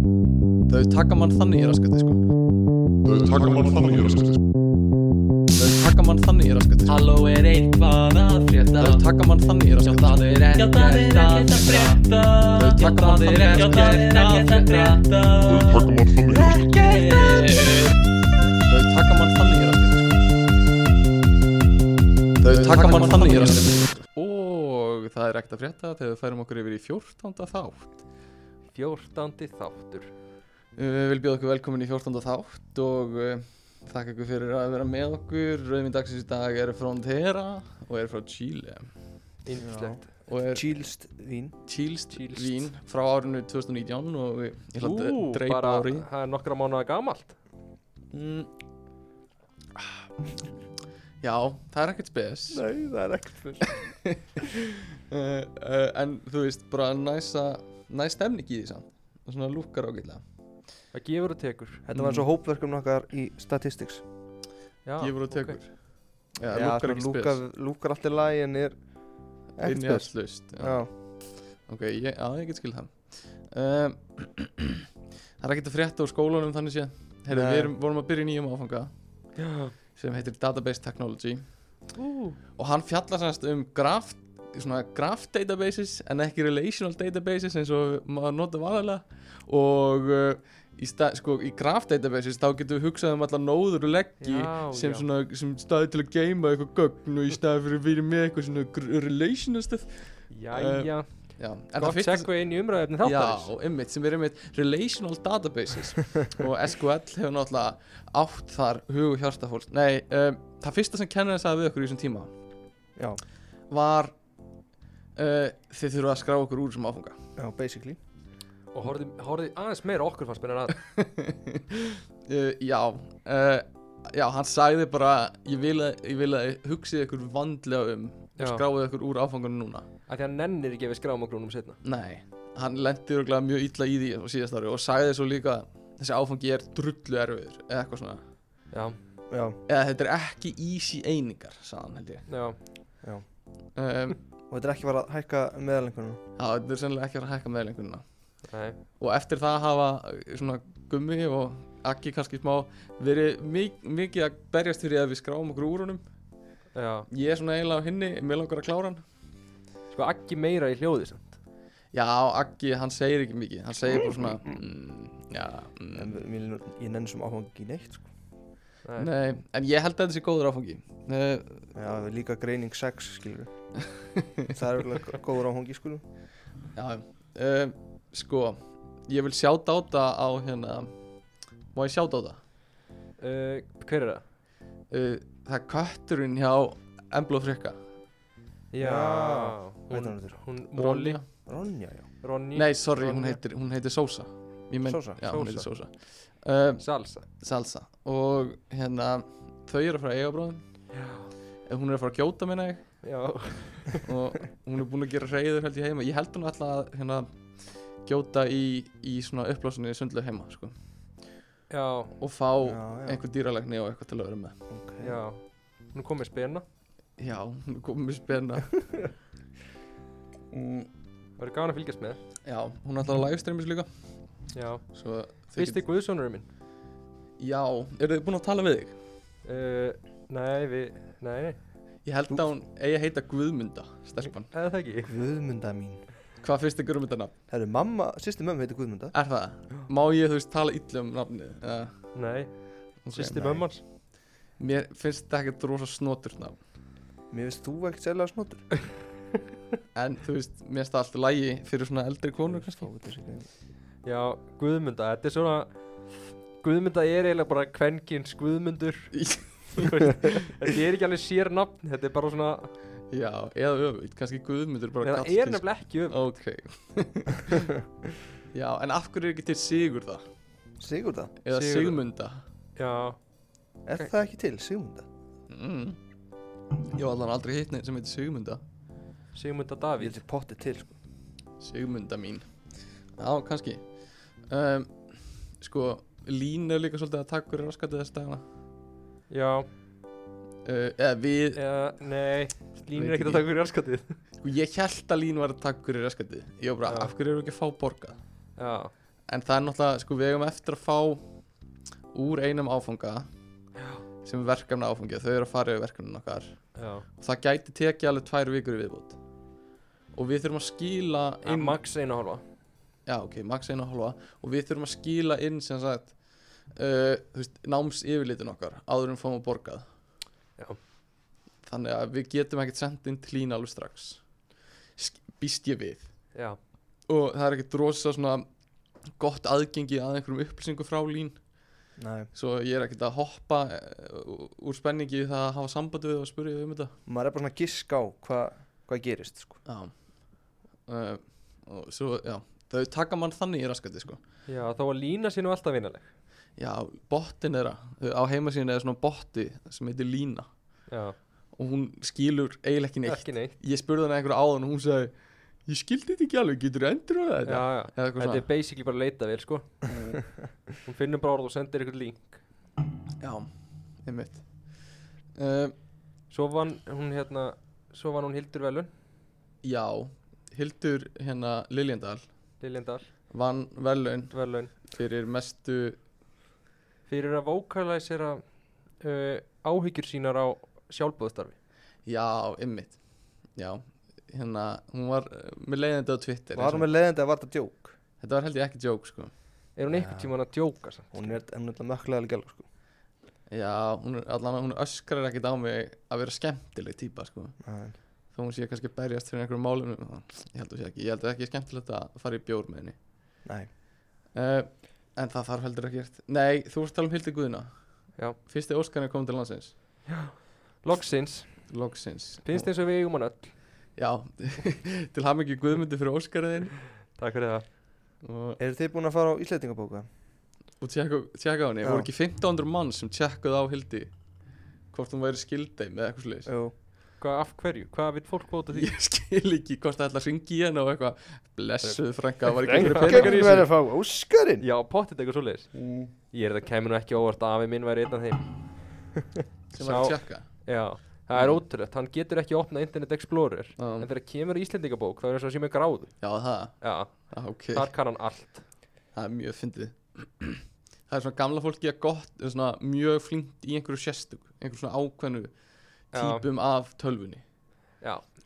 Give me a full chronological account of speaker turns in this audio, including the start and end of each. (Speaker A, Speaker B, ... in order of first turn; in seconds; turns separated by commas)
Speaker A: 0.5-2.2, Speaker B: 3.1-4.3, Speaker A: 3.2-4.0, Speaker A: 5.6-7.0, Speaker C: 6.9-9.0, Speaker A: 8.8-15.0, Speaker C: 9.8-17.9, Speaker A: 15.6-15.9, Speaker B: 15.6-16.7, Speaker A: 17.0-17.7, Speaker A: 18.6-20.2, Speaker A: 22.4-28.0, Speaker C: 22.5-23.8, Speaker D: 28.7-30.1, Speaker A: 30.8-38.9, Speaker D: 39.5-40.1, Speaker E: 39.5-41.5, Speaker A: 40.3-40.7, Speaker A: 41.6-46.1, Speaker D: 42.1-42.7, Speaker D: 44.8-47.4, Speaker A: 51.2-52.6, Speaker E: 52.5-53.8, Speaker A: 53.7-60.2, Speaker D: 60.9-61.8, Speaker E: 61.9-64.0, Speaker A: 61.9-62.2, Speaker D: 64.8-65.6, Speaker A: 65.0-65.7, Speaker A: 66.3-67.4, Speaker E: 66.5-68.8, Speaker A: 69.5-74.8, Speaker E: 69.6-70.9, Speaker A: 75.4-78.9, Speaker E: 77.3-77.7, Speaker D: 79.3-79.7, Speaker A: 79.9-81.5, Speaker D: 82.0-82.4, Speaker A: 82.5-102.3, Speaker D: 94.2-95.0, Speaker D: 100.3-103.5, Speaker A: 103.0-112.3, Speaker E: 113.0-113.2, Speaker A: 113.7-114.2, Speaker A: 115.2-117.1, Speaker E: 117.4-118.0, Speaker D: 118.7-120.8, Speaker A: 120.9-129.8, Speaker D: 130.1-131.8, Speaker A: 131.8-138.2, Speaker D: 138.7-139.0, Speaker E: 139.3-139.6, Speaker A: 139.7-142.2, Speaker D: 142.3-142.6, Speaker A: 143.7-144.2, Speaker E: 144.5-146.2, Speaker A: 146.4-148.0, Speaker D: 148.5-148.8, Speaker A: 149.0-156.0, Speaker D: 156.7-157.1, Speaker A: 157.1-159.0, Speaker D: 159.9-161.4, Speaker A: 161.9-166.1, Speaker E: 165.9-168.1, Speaker D: 168.8-169.1, Speaker A: 169.0-171.7, Speaker E: 171.7-173.5, Speaker A: 174.0-174.5, Speaker E: 174.5-176.0, Speaker A: 176.7-180.9, Speaker A: 181.7-182.4, Speaker D: 183.2-184.2, Speaker A: 184.9-187.8, Speaker D: 188.7-191.4, Speaker E: 188.8-190.4, Speaker A: 190.7-191.2, Speaker E: 191.4-192.1, Speaker D: 192.2-193.4, Speaker A: 192.5-196.8, Speaker E: 194.8-195.6, Speaker D: 195.2-195.7, Speaker D: 196.8-197.2, Speaker A: 197.4-200.6, Speaker D: 200.9-201.3, Speaker A: 201.7-202.8, Speaker D: 203.0-204.1, Speaker A: 204.0-207.3, Speaker A: 208.0-210.7, Speaker D: 211.7-212.2, Speaker A: 212.2-214.6, Speaker E: 212.6-213.2, Speaker E: 214.7-215.2, Speaker D: 215.0-216.6, Speaker A: 217.2-218.8, Speaker C: 220.6-220.9, Speaker D: 221.4-222.2, Speaker A: 222.4-223.9, Speaker D: 224.5-226.5, Speaker A: 224.9-225.8, Speaker A: 227.4-228.9, Speaker D: 229.4-231.6, Speaker A: 232.0-234.5, Speaker D: 234.5-235.1, Speaker E: 235.0-236.0, Speaker A: 236.4-237.3, Speaker E: 237.5-239.1, Speaker A: 239.1-242.1, Speaker D: 242.1-243.8, Speaker A: 243.0-243.7, Speaker E: 243.3-243.6, Speaker A: 244.6-246.6, Speaker E: 247.3-248.7, Speaker A: 249.9-252.9, Speaker E: 252.5-253.5, Speaker D: 254.0-262.7, Speaker A: 259.1-259.9, Speaker A: 263.1-267.7, Speaker D: 265.0-266.3, Speaker A: 268.5-270.2, Speaker E: 270.8-271.3, Speaker A: 271.4-272.4, Speaker D: 271.5-272.0, Speaker D: 272.8-273.2, Speaker E: 273.9-275.1, Speaker A: 275.5-276.0, Speaker A: 276.9-278.6, Speaker D: 279.3-280.2, Speaker E: 280.0-281.0, Speaker A: 281.6-282.4, Speaker A: 283.2-283.9, Speaker A: 284.4-288.4, Speaker D: 289.3-289.7, Speaker A: 290.6-291.6, Speaker D: 291.6-294.2, Speaker A: 292.9-293.4, Speaker A: 294.4-298.2, Speaker D: 296.9-297.1, Speaker D: 298.6-298.9, Speaker A: 299.3-301.2, Speaker A: 302.1-303.3, Speaker A: 304.2-306.6, Speaker D: 306.8-307.0, Speaker A: 307.2-309.2, Speaker A: 310.1-311.8, Speaker D: 311.4-312.4, Speaker A: 313.1-316.1, Speaker A: 316.7-319.8, Speaker A: 321.6-324.2, Speaker A: 324.9-326.1, Speaker A: 327.1-328.4, Speaker A: 329.2-331.4, Speaker E: 332.0-332.3, Speaker A: 332.3-336.9, Speaker E: 337.1-339.6, Speaker A: 339.6-340.0, Speaker A: 340.9-344.2, Speaker D: 344.5-346.1, Speaker A: 346.6-350.5, Speaker D: 350.9-351.1, Speaker A: 351.5-355.1, Speaker D: 353.1-353.5, Speaker A: 355.6-358.4, Speaker D: 357.4-362.4, Speaker A: 363.2-363.5, Speaker A: 364.0-364.5, Speaker A: 365.4-365.7, Speaker D: 366.3-368.9, Speaker A: 369.6-372.2, Speaker D: 372.6-373.1, Speaker A: 373.3-376.0, Speaker D: 374.3-374.7, Speaker D: 377.1-378.4, Speaker D: 379.0-381.6, Speaker A: 382.1-383.0, Speaker A: 383.6-386.9, Speaker E: 386.5-387.9, Speaker A: 388.2-389.3, Speaker D: 389.8-391.4, Speaker E: 389.9-390.3, Speaker E: 391.1-392.7, Speaker A: 393.5-397.6, Speaker E: 397.6-397.9, Speaker A: 398.3-402.9, Speaker E: 403.4-403.7, Speaker A: 404.3-407.7, Speaker A: 408.4-409.7, Speaker D: 410.1-411.7, Speaker A: 411.7-412.4, Speaker D: 412.4-413.5, Speaker A: 413.9-416.8, Speaker D: 417.1-417.6, Speaker A: 418.2-418.6, Speaker E: 418.6-420.1, Speaker A: 420.8-424.1, Speaker E: 421.8-422.1, Speaker A: 424.9-426.5, Speaker E: 426.5-426.7, Speaker D: 427.2-428.9, Speaker A: 428.7-433.7, Speaker D: 431.9-433.5, Speaker E: 432.7-434.6, Speaker D: 434.6-438.5, Speaker C: 435.8-436.1, Speaker A: 439.7-440.5, Speaker D: 439.8-446.2, Speaker A: 441.3-441.6, Speaker A: 443.8-444.1, Speaker A: 446.2-447.9, Speaker D: 446.8-448.6, Speaker A: 449.1-455.5, Speaker A: 456.1-457.4, Speaker D: 456.1-456.4